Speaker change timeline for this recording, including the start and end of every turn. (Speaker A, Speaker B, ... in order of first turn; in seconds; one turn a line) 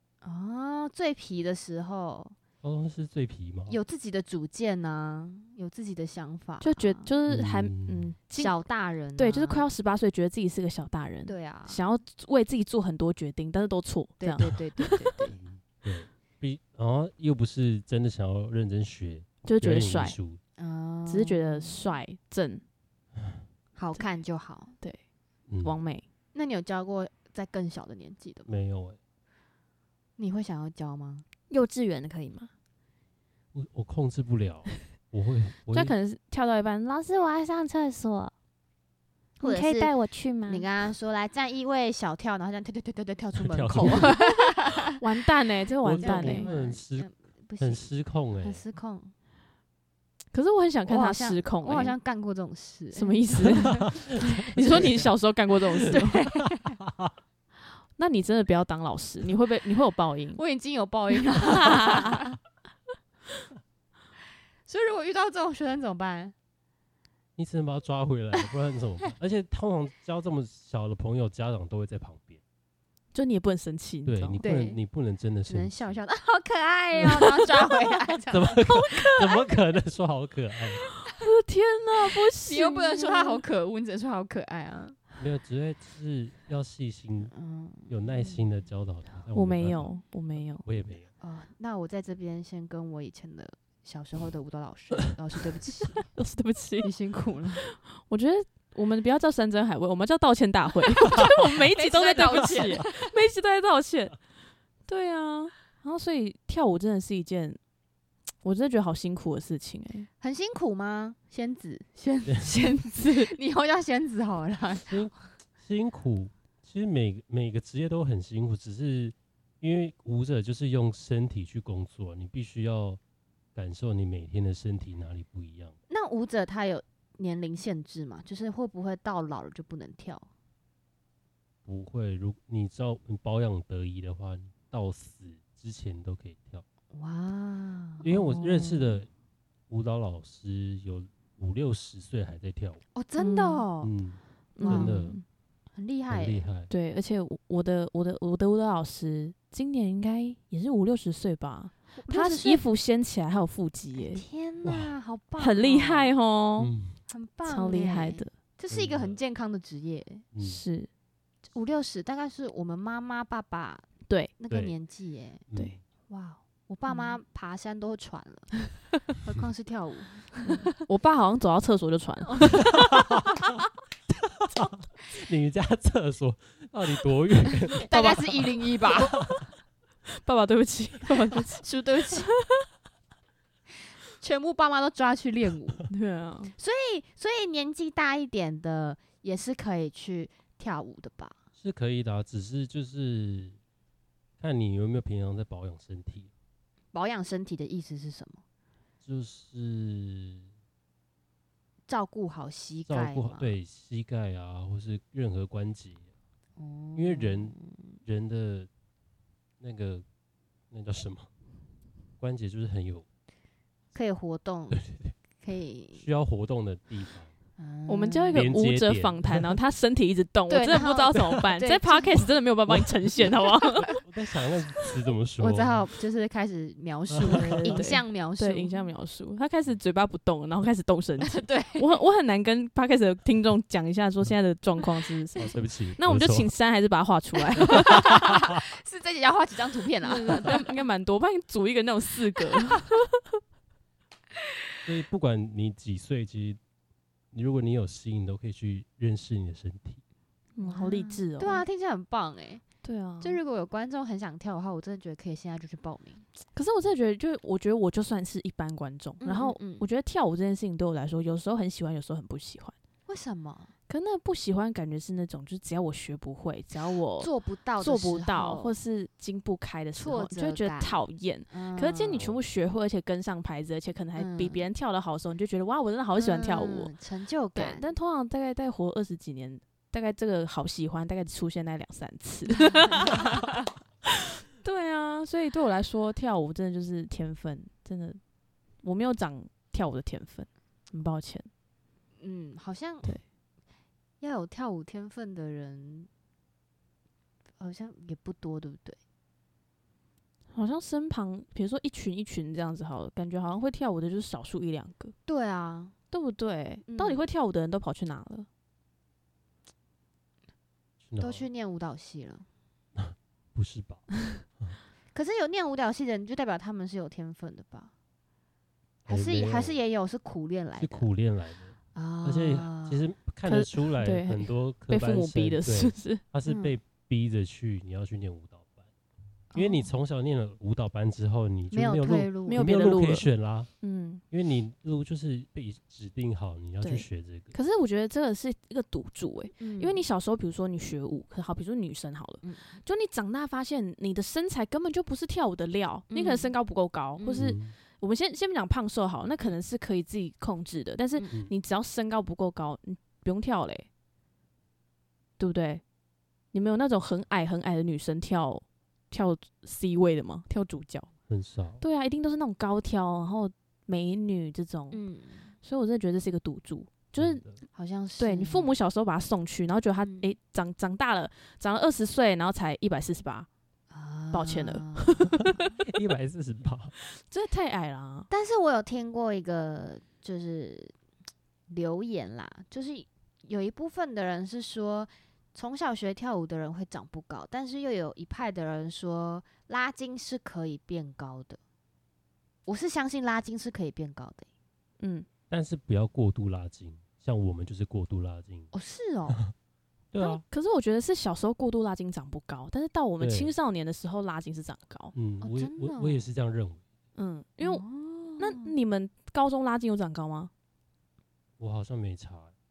Speaker A: 0.2-2.4
Speaker B: 2.6-3.8
Speaker A: 3.7-7.1
Speaker C: 6.6-8.6
Speaker B: 7.3-8.1
Speaker A: 8.3-9.7
Speaker C: 9.2-15.1
Speaker A: 11.3-11.8
Speaker A: 14.2-15.4
Speaker B: 15.4-20.4
Speaker C: 19.4-20.2
Speaker A: 20.6-21.8
Speaker C: 21.1-22.6
Speaker A: 23.8-24.8
Speaker B: 25.5-25.8
Speaker C: 25.6-26.1
Speaker A: 26.3-28.5
Speaker B: 28.5-29.0
Speaker A: 30.2-31.3
Speaker C: 31.5-32.5
Speaker B: 33.5-36.0
Speaker C: 35.7-38.3
Speaker C: 39.4-40.7
Speaker A: 39.4-39.9
Speaker A: 40.5-45.0
Speaker B: 43.4-44.2
Speaker C: 45.0-46.5
Speaker B: 45.8-47.1
Speaker A: 46.0-49.1
Speaker B: 47.6-48.6
Speaker C: 50.3-52.0
Speaker A: 50.9-54.0
Speaker C: 52.9-56.2
Speaker B: 53.8-55.1
Speaker A: 55.9-56.8
Speaker B: 56.6-57.1
Speaker C: 58.0-60.4
Speaker A: 60.4-62.4
Speaker C: 61.1-62.2
Speaker A: 64.7-66.3
Speaker B: 67.4-72.4
Speaker C: 73.1-74.4
Speaker B: 74.0-76.0
Speaker A: 74.4-74.8
Speaker A: 75.5-78.6
Speaker B: 78.3-80.9
Speaker C: 78.7-79.5
Speaker C: 81.0-83.4
Speaker A: 82.4-85.0
Speaker B: 85.2-87.3
Speaker A: 87.3-88.4
Speaker B: 87.9-89.9
Speaker C: 89.3-90.7
Speaker B: 90.5-91.1
Speaker A: 91.2-96.0
Speaker C: 96.0-96.9
Speaker A: 96.8-97.7
Speaker C: 97.6-104.2
Speaker A: 101.1-103.1
Speaker C: 104.9-107.6
Speaker C: 108.4-110.1
Speaker A: 110.2-115.0
Speaker C: 112.5-113.4
Speaker B: 114.9-123.0
Speaker B: 123.5-125.8
Speaker A: 125.9-130.3
Speaker B: 131.7-136.6
Speaker A: 136.9-138.4
Speaker B: 138.0-139.1
Speaker C: 138.1-138.8
Speaker B: 139.7-142.8
Speaker A: 142.9-143.9
Speaker C: 143.2-143.7
Speaker B: 143.8-145.2
Speaker C: 144.6-145.2
Speaker A: 144.6-145.0
Speaker A: 145.8-146.5
Speaker B: 146.1-146.7
Speaker C: 146.7-154.2
Speaker A: 152.0-152.6
Speaker A: 154.1-156.1
Speaker B: 154.7-154.9
Speaker C: 155.4-156.7
Speaker B: 156.6-157.0
Speaker A: 157.1-160.2
Speaker C: 157.5-158.3
Speaker B: 158.7-159.2
Speaker B: 160.3-160.6
Speaker C: 160.4-160.9
Speaker A: 161.5-163.9
Speaker A: 164.4-165.4
Speaker B: 164.5-164.8
Speaker B: 165.5-165.8
Speaker A: 166.1-170.7
Speaker C: 166.9-167.1
Speaker C: 170.5-172.8
Speaker A: 172.4-172.6
Speaker B: 172.7-173.6
Speaker B: 174.1-178.4
Speaker A: 177.9-179.2
Speaker C: 177.9-178.2
Speaker B: 179.1-179.4
Speaker C: 180.2-181.6
Speaker A: 181.3-182.3
Speaker C: 182.3-182.7
Speaker A: 184.2-185.8
Speaker C: 185.9-186.5
Speaker A: 186.6-191.3
Speaker B: 191.6-193.6
Speaker B: 194.4-196.3
Speaker A: 196.9-198.4
Speaker B: 199.0-200.5
Speaker A: 201.9-203.6
Speaker B: 202.9-206.0
Speaker A: 206.6-208.0
Speaker B: 207.0-208.7
Speaker B: 209.6-210.1
Speaker B: 210.7-211.3
Speaker B: 212.2-213.1
Speaker A: 213.9-214.8
Speaker B: 214.7-215.1
Speaker A: 215.4-216.0
Speaker B: 215.9-217.3
Speaker A: 217.6-218.5
Speaker C: 217.9-223.9
Speaker B: 218.3-219.6
Speaker A: 220.5-222.3
Speaker B: 221.2-221.5
Speaker B: 222.7-223.3
Speaker B: 223.9-225.8
Speaker A: 225.4-228.8
Speaker B: 227.2-227.8
Speaker C: 227.3-238.1
Speaker A: 231.2-231.9
Speaker B: 235.4-236.5
Speaker A: 237.6-240.7
Speaker B: 237.7-238.3
Speaker C: 240.0-243.4
Speaker B: 244.9-246.6
Speaker B: 247.3-250.0
Speaker C: 250.6-251.7
Speaker A: 250.6-252.6
Speaker C: 252.8-253.4
Speaker A: 253.2-256.2
Speaker C: 256.6-262.7
Speaker A: 259.2-259.9
Speaker A: 263.1-263.7
Speaker C: 263.9-276.9
Speaker A: 266.8-268.8
Speaker A: 270.0-272.3
Speaker A: 274.2-274.6
Speaker A: 276.1-277.9
Speaker C: 277.6-283.4
Speaker A: 282.7-283.5
Speaker C: 284.6-288.2
Speaker C: 288.8-291.5
Speaker A: 292.2-293.1
Speaker A: 294.2-296.1
Speaker A: 297.6-299.0
Speaker C: 300.5-305.1
Speaker A: 305.3-305.9
Speaker C: 306.1-308.5
Speaker A: 306.9-307.3
Speaker B: 311.0-311.5
Speaker A: 311.2-312.5
Speaker B: 313.0-314.1
Speaker A: 315.1-317.9
Speaker B: 319.1-319.8
Speaker A: 319.1-321.1
Speaker B: 320.8-328.9
Speaker A: 321.9-323.0
Speaker C: 323.4-326.2
Speaker A: 326.4-326.8
Speaker A: 329.5-329.9
Speaker B: 329.6-333.7
Speaker A: 331.7-332.6
Speaker C: 332.5-333.3
Speaker C: 333.8-334.2
Speaker B: 334.3-337.5
Speaker A: 336.8-337.1
Speaker C: 337.5-353.9
Speaker A: 339.6-340.1
Speaker A: 342.4-342.8
Speaker A: 346.1-346.6
Speaker A: 347.2-347.4
Speaker B: 347.4-347.8
Speaker C: 355.4-355.8
Speaker C: 356.5-361.1
Speaker B: 361.3-361.8
Speaker C: 361.8-365.0
Speaker A: 364.9-365.5
Speaker C: 365.6-367.4
Speaker B: 367.2-367.6
Speaker A: 367.7-368.8
Speaker C: 368.2-373.5
Speaker A: 370.0-370.3
Speaker A: 373.9-375.7
Speaker C: 374.3-375.7
Speaker B: 375.8-376.9
Speaker C: 377.1-378.3
Speaker A: 378.3-380.9
Speaker A: 381.7-391.6
Speaker A: 392.7-394.5
Speaker C: 395.0-395.3
Speaker B: 395.5-398.7
Speaker A: 398.7-399.4
Speaker B: 400.1-400.4
Speaker C: 400.2-405.1
Speaker B: 403.2-403.5
Speaker B: 405.1-406.8
Speaker A: 405.4-406.2
Speaker C: 407.2-407.8
Speaker A: 407.6-408.7
Speaker C: 408.4-410.5
Speaker B: 411.6-412.5